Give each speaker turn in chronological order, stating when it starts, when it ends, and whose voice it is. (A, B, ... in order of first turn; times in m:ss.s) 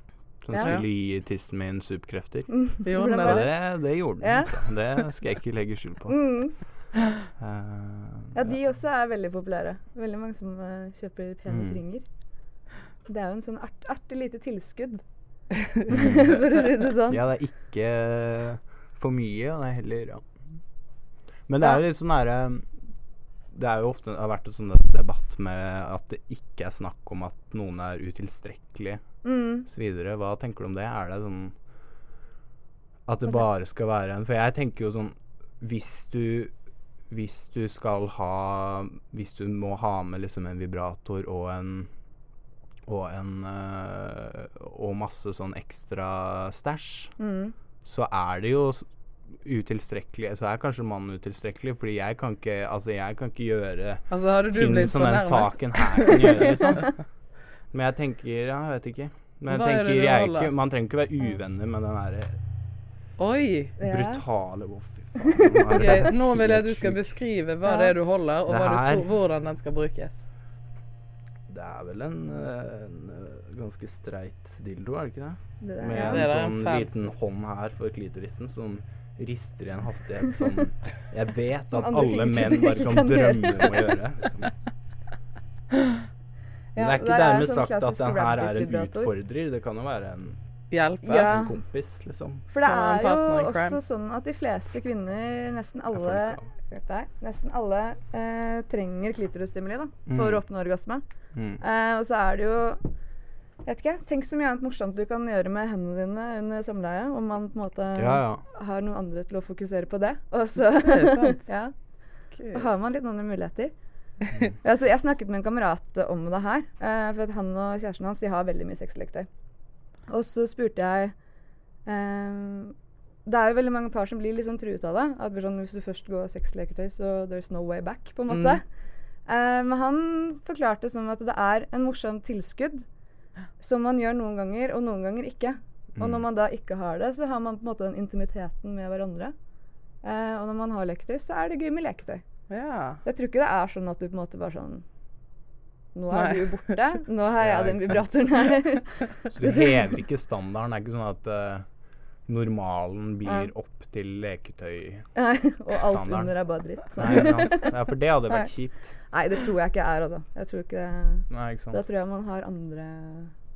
0:00.4-0:02.5 A
0:00.5-0:00.8 B
0:00.5-0:00.8 C
0:02.5-0:03.6 B
0:02.8-0:03.5 C
0:03.2-0:06.2 A
0:04.2-0:04.8 B
0:06.1-0:06.6 B
0:07.4-0:08.4 A
0:08.3-0:12.0 B
0:11.5-0:11.8 A
0:13.1-0:15.0 B
0:15.9-0:17.2 B
0:15.9-0:16.4 A
0:17.1-0:20.2 A
0:21.5-0:22.7 A
0:23.5-0:29.0 A
0:29.2-0:29.7 B
0:29.7-0:31.5 A
0:33.1-0:36.5 A
0:37.1-0:41.9 A
0:42.9-0:47.2 A
0:47.2-0:47.6 B
0:47.8-0:48.9 A
0:49.4-0:57.0 A
0:54.1-0:56.6 C
0:57.7-1:02.4 A
0:59.5-1:00.5 C
1:03.2-1:03.8 C
1:03.8-1:04.2 B
1:03.8-1:07.1 A
1:05.2-1:06.1 B
1:05.7-1:10.3 C
1:07.6-1:07.9 B
1:08.5-1:09.1 A
1:11.5-1:24.5 A
1:15.6-1:16.3 B
1:15.9-1:17.1 C
1:21.7-1:24.0 B
1:26.7-1:29.1 B
1:26.8-1:30.4 A
1:30.7-1:31.4 C
1:31.0-1:31.6 B
1:31.1-1:32.4 A
1:32.5-1:41.0 B
1:32.6-1:33.8 C
1:36.0-1:36.4 A
1:40.1-1:40.4 A
1:41.3-1:41.6 A
1:41.6-1:42.8 B
1:43.6-1:51.7 B
1:48.0-1:48.4 A
1:50.8-1:51.4 C
1:52.3-1:52.7 C
1:52.5-1:53.7 B
1:54.6-1:59.3 B
2:00.1-2:01.1 B
2:01.9-2:02.7 B
2:03.2-2:08.6 B
2:09.3-2:12.8 B
2:13.6-2:19.3 B
2:16.0-2:16.2 A
2:20.0-2:22.2 B
2:22.5-2:23.0 C
2:23.0-2:24.8 B
2:26.0-2:29.7 B
2:26.1-2:26.8 C
2:27.4-2:28.6 A
2:29.3-2:31.7 A
2:32.3-2:35.1 A
2:33.2-2:33.5 B
2:35.2-2:37.8 B
2:35.9-2:36.3 A
2:36.9-2:38.9 A
2:39.1-2:43.3 B
2:41.3-2:41.8 A